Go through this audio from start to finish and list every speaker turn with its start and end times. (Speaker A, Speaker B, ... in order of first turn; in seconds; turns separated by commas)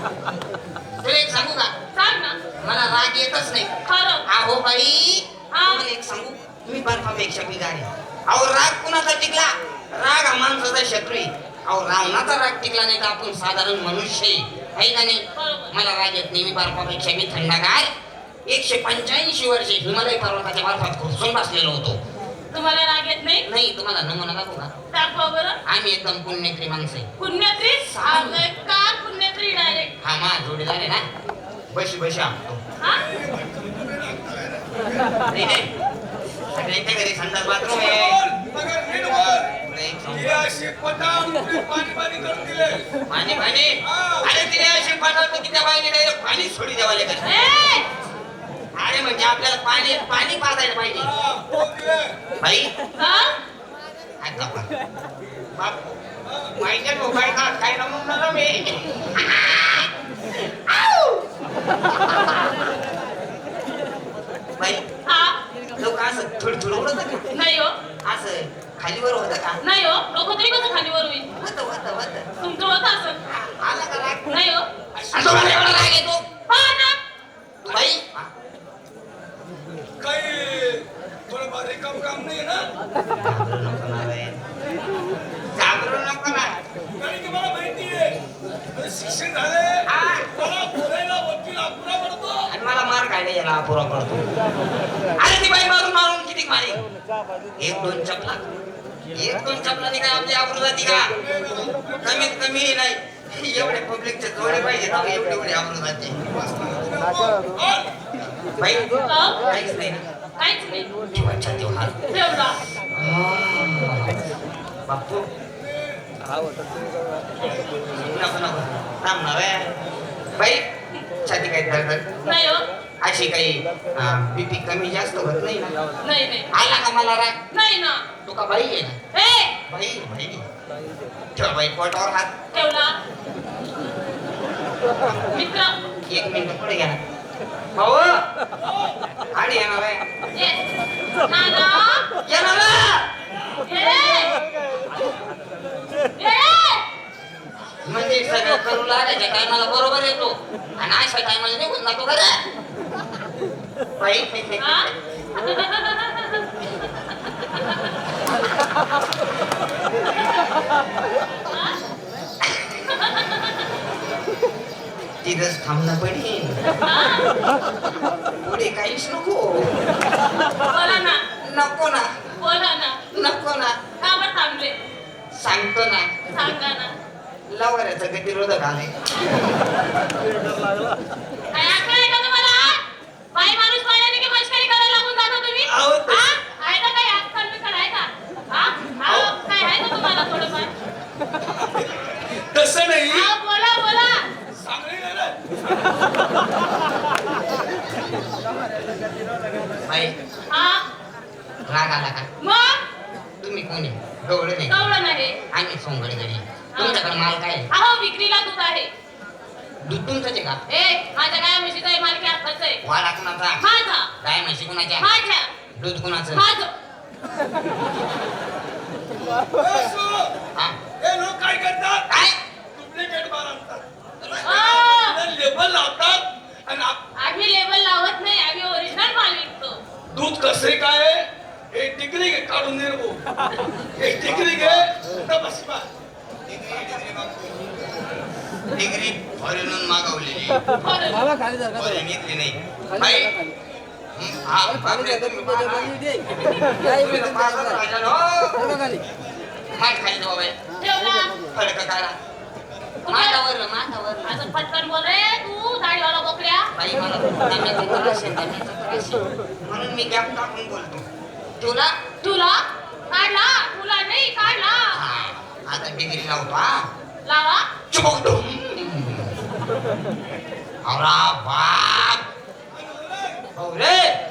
Speaker A: 1.0-1.7, Speaker B: 1.9-2.4, Speaker A: 2.6-3.7, Speaker B: 3.9-4.2, Speaker A: 4.2-17.9, Speaker B: 5.5-5.8, Speaker B: 15.3-15.8, Speaker A: 18.4-22.0, Speaker B: 22.5-23.4, Speaker A: 23.4-24.7, Speaker B: 24.9-25.6, Speaker A: 25.6-27.1, Speaker B: 27.2-29.9, Speaker A: 27.9-28.4, Speaker A: 30.0-31.1, Speaker A: 31.7-32.6, Speaker C: 32.9-35.0, Speaker A: 35.3-35.7, Speaker A: 36.5-38.2, Speaker C: 37.7-39.5, Speaker A: 39.6-40.5, Speaker C: 40.1-42.8, Speaker A: 43.1-47.3, Speaker C: 43.8-44.3, Speaker B: 47.2-47.9, Speaker A: 48.8-51.1, Speaker C: 50.9-52.1, Speaker A: 52.4-52.7, Speaker B: 53.0-53.3, Speaker A: 54.2-54.7, Speaker A: 55.5-56.0, Speaker C: 56.2-56.5, Speaker A: 56.5-59.9, Speaker A: 60.5-61.2, Speaker A: 64.6-64.8, Speaker B: 65.0-65.4, Speaker A: 65.8-67.3, Speaker B: 67.3-67.7, Speaker A: 68.0-69.6, Speaker B: 69.6-71.3, Speaker A: 71.4-72.3, Speaker B: 72.4-73.2, Speaker A: 73.3-74.3, Speaker B: 74.3-74.7, Speaker C: 74.9-75.7, Speaker A: 75.1-76.2, Speaker B: 76.5-77.0, Speaker A: 77.6-78.3, Speaker C: 80.0-82.7, Speaker A: 83.2-84.4, Speaker A: 85.5-86.5, Speaker C: 87.0-88.2, Speaker C: 88.7-92.5, Speaker A: 89.8-90.3, Speaker A: 92.5-94.2, Speaker A: 95.2-96.8, Speaker A: 97.6-98.4, Speaker A: 99.1-101.1, Speaker C: 101.2-102.3, Speaker A: 102.0-106.2, Speaker C: 106.3-107.9, Speaker A: 108.6-110.0, Speaker B: 109.0-109.4, Speaker B: 110.4-110.9, Speaker A: 111.1-112.0, Speaker B: 112.1-112.6, Speaker A: 112.9-114.2, Speaker A: 114.9-115.3, Speaker A: 118.0-119.7, Speaker A: 120.4-120.7, Speaker A: 121.2-122.1, Speaker B: 122.2-122.6, Speaker A: 123.0-125.7, Speaker B: 126.0-126.5, Speaker A: 126.5-127.4, Speaker B: 127.5-128.0, Speaker A: 128.2-129.0, Speaker B: 129.1-129.6, Speaker A: 129.7-130.5, Speaker A: 131.3-132.3, Speaker B: 132.5-133.0, Speaker A: 135.0-135.3, Speaker B: 135.3-135.7, Speaker A: 136.1-137.0, Speaker A: 137.8-138.2, Speaker A: 139.3-140.0, Speaker B: 140.3-140.6, Speaker B: 141.2-142.1, Speaker A: 142.2-143.1, Speaker B: 143.6-144.4, Speaker B: 146.2-146.8, Speaker A: 147.8-152.4, Speaker A: 154.0-154.9, Speaker B: 154.6-156.4, Speaker B: 161.5-161.8, Speaker B: 162.8-163.6, Speaker A: 165.2-166.6, Speaker B: 166.8-167.3, Speaker A: 168.4-169.7, Speaker B: 170.7-171.2, Speaker A: 171.4-172.3, Speaker B: 172.4-173.0, Speaker A: 173.1-173.8, Speaker B: 174.0-174.8, Speaker A: 175.3-176.1, Speaker B: 176.3-176.9, Speaker A: 177.5-178.9, Speaker B: 181.5-182.8, Speaker B: 183.3-190.7, Speaker C: 185.6-186.3, Speaker C: 189.1-189.3, Speaker C: 191.4-193.3, Speaker B: 193.1-194.2, Speaker C: 194.5-195.6, Speaker A: 199.8-200.1, Speaker B: 200.5-200.8, Speaker A: 201.7-202.3, Speaker B: 202.4-202.8, Speaker A: 203.4-205.0, Speaker B: 204.7-205.4, Speaker A: 205.5-207.7, Speaker B: 206.7-207.2, Speaker B: 207.7-208.9, Speaker A: 209.8-210.6, Speaker B: 210.7-212.8, Speaker A: 212.8-213.7, Speaker B: 213.6-214.1, Speaker A: 214.2-215.1, Speaker B: 215.0-215.5, Speaker A: 215.8-216.4, Speaker B: 216.3-216.7, Speaker C: 219.6-220.3, Speaker C: 221.0-222.2, Speaker A: 222.1-222.4, Speaker C: 222.7-227.0, Speaker B: 224.4-225.2, Speaker B: 227.2-229.8, Speaker C: 230.1-233.2, Speaker C: 234.0-235.9, Speaker A: 236.5-237.5, Speaker A: 238.7-240.6, Speaker B: 240.8-241.3, Speaker A: 241.7-243.3, Speaker A: 244.2-246.0, Speaker A: 246.8-248.8, Speaker A: 249.7-250.6, Speaker B: 250.8-251.3, Speaker A: 251.5-252.1, Speaker B: 253.0-253.4, Speaker A: 253.1-254.4, Speaker B: 254.2-256.7, Speaker A: 256.7-261.1, Speaker A: 261.6-261.9, Speaker B: 262.2-265.0, Speaker A: 264.9-266.9, Speaker B: 267.2-267.7, Speaker A: 267.9-269.4, Speaker A: 270.8-272.2, Speaker C: 272.8-273.4, Speaker A: 273.5-274.2